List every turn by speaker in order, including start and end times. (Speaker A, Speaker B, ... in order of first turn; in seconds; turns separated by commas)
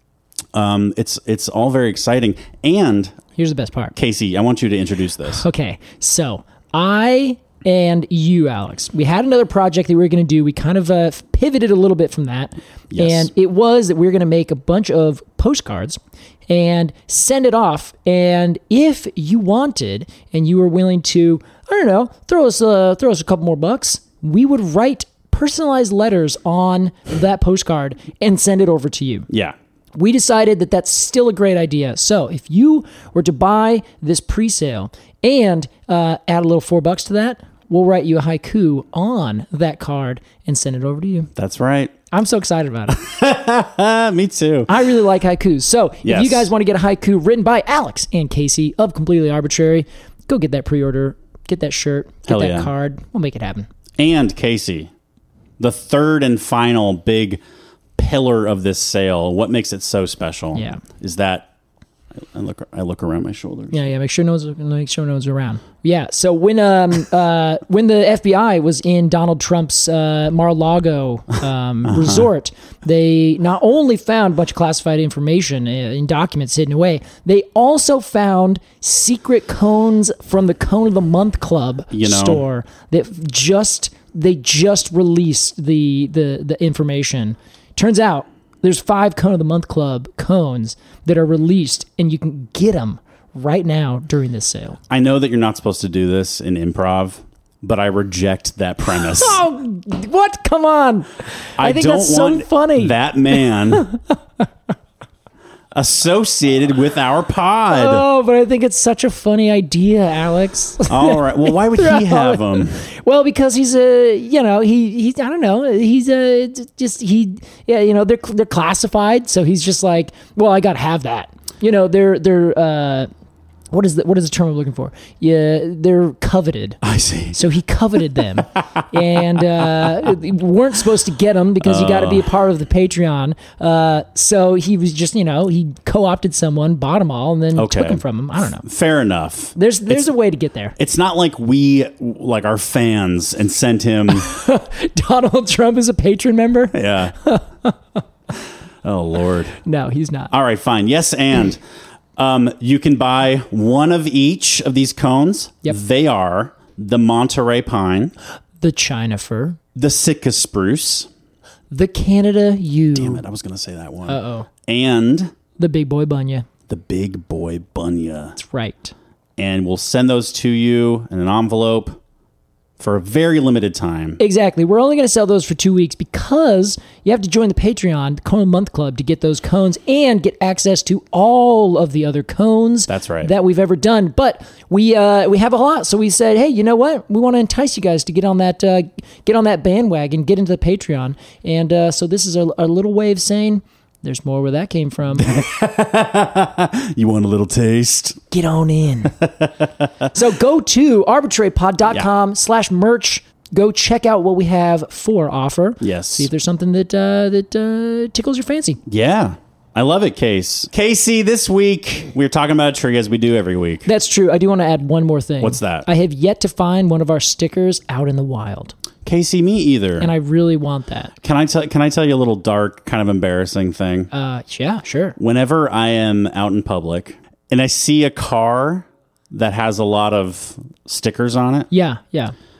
Speaker A: 0.5-3.1, Speaker B: 3.4-3.9, Speaker A: 3.9-5.4, Speaker B: 5.3-29.3, Speaker A: 12.9-13.3, Speaker A: 29.3-29.6, Speaker B: 29.9-41.3, Speaker A: 41.4-42.0, Speaker B: 42.1-43.0, Speaker A: 42.9-44.9, Speaker B: 44.7-53.7, Speaker A: 46.0-46.5, Speaker A: 52.2-52.7, Speaker A: 54.0-54.9, Speaker A: 55.6-57.4, Speaker A: 58.0-61.5, Speaker B: 60.5-60.8, Speaker A: 62.2-63.8, Speaker B: 63.7-94.8, Speaker A: 71.8-72.3, Speaker A: 81.9-82.4, Speaker A: 94.9-99.4, Speaker B: 98.9-104.1, Speaker A: 101.6-103.9, Speaker A: 105.7-108.0, Speaker B: 107.7-123.1, Speaker A: 110.9-112.8, Speaker B: 123.7-126.8, Speaker A: 126.8-127.4, Speaker B: 127.3-138.6, Speaker A: 128.4-128.8, Speaker A: 129.3-130.1, Speaker A: 131.6-132.3, Speaker A: 137.5-138.0, Speaker A: 138.6-140.1, Speaker B: 139.6-140.8, Speaker A: 140.8-144.3, Speaker B: 144.1-148.0, Speaker A: 146.7-147.1, Speaker A: 148.8-149.6, Speaker B: 149.6-150.3, Speaker A: 150.3-151.6, Speaker A: 152.2-158.1, Speaker B: 158.6-159.6, Speaker A: 159.7-161.1, Speaker B: 161.7-163.2, Speaker A: 162.9-165.3, Speaker B: 164.1-164.5, Speaker B: 165.6-166.4, Speaker A: 166.7-168.4, Speaker B: 168.4-168.9, Speaker A: 169.4-172.0, Speaker A: 172.8-174.2, Speaker B: 174.2-195.3, Speaker A: 182.9-183.3, Speaker A: 195.1-198.2, Speaker B: 198.3-199.2, Speaker A: 199.2-200.0, Speaker B: 200.1-208.8, Speaker A: 205.8-206.3, Speaker A: 208.8-213.9, Speaker B: 213.8-218.7, Speaker A: 215.4-215.9, Speaker A: 219.0-220.1, Speaker B: 220.0-221.1, Speaker A: 221.2-224.1, Speaker B: 224.1-225.2, Speaker A: 225.2-231.7, Speaker B: 231.7-232.3